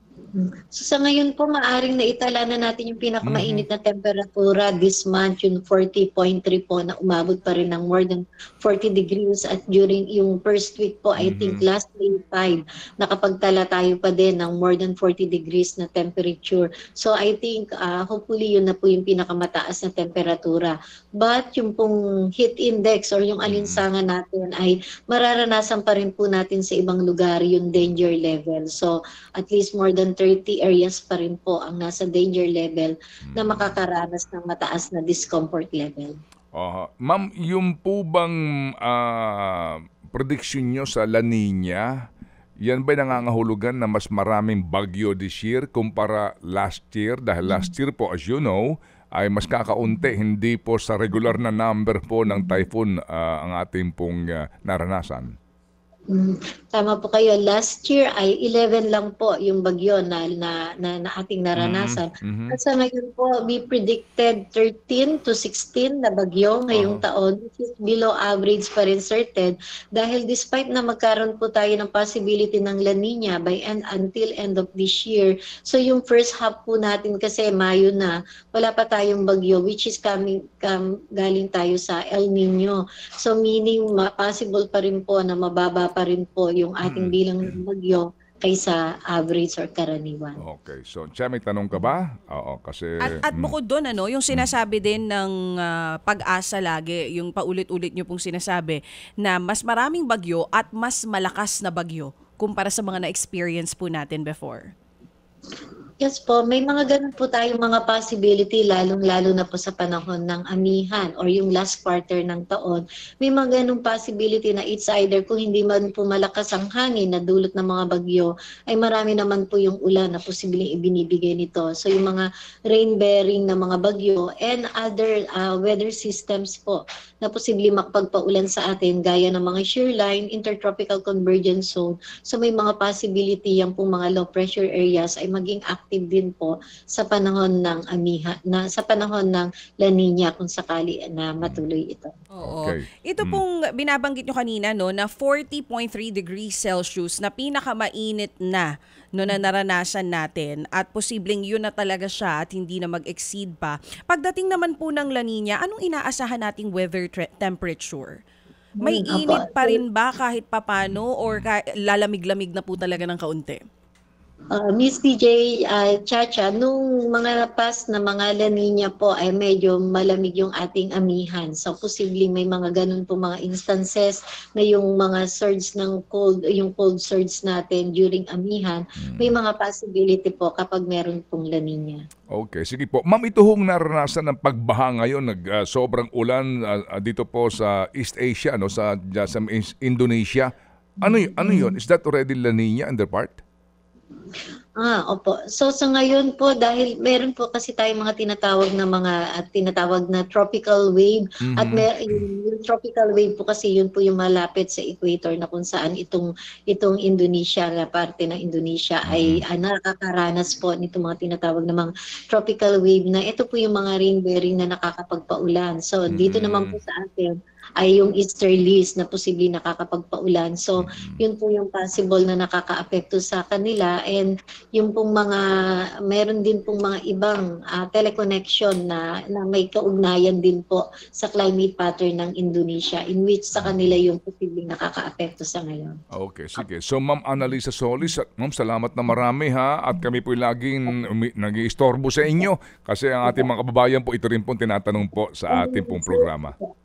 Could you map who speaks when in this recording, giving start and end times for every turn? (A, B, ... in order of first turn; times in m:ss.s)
0:00.3-0:36.1 A
0:03.2-0:03.6 B
0:11.2-0:11.6 B
0:23.4-0:23.8 B
0:33.2-0:33.8 B
0:36.5-0:41.9 B
0:42.6-0:55.3 B
0:52.3-0:52.6 A
0:56.1-1:30.4 A
1:01.6-1:02.6 B
1:06.7-1:07.0 B
1:26.8-1:27.5 B
1:30.4-1:33.5 B
1:33.0-1:44.7 C
1:46.0-2:22.1 A
2:22.3-2:38.2 C
2:22.4-2:23.4 B
2:38.8-2:43.6 C
2:38.8-2:39.8 A
2:44.5-3:02.0 A
2:59.0-2:59.4 B
3:02.3-3:10.5 B
3:11.0-3:13.4 B
3:11.0-3:11.8 A
3:14.8-3:45.4 A
3:21.5-3:22.2 B
3:29.0-3:29.4 B
3:36.1-3:36.8 B
3:40.8-3:41.2 B
3:46.1-3:56.0 A
3:56.1-4:06.5 B
4:02.2-4:02.5 A
4:05.5-4:06.7 A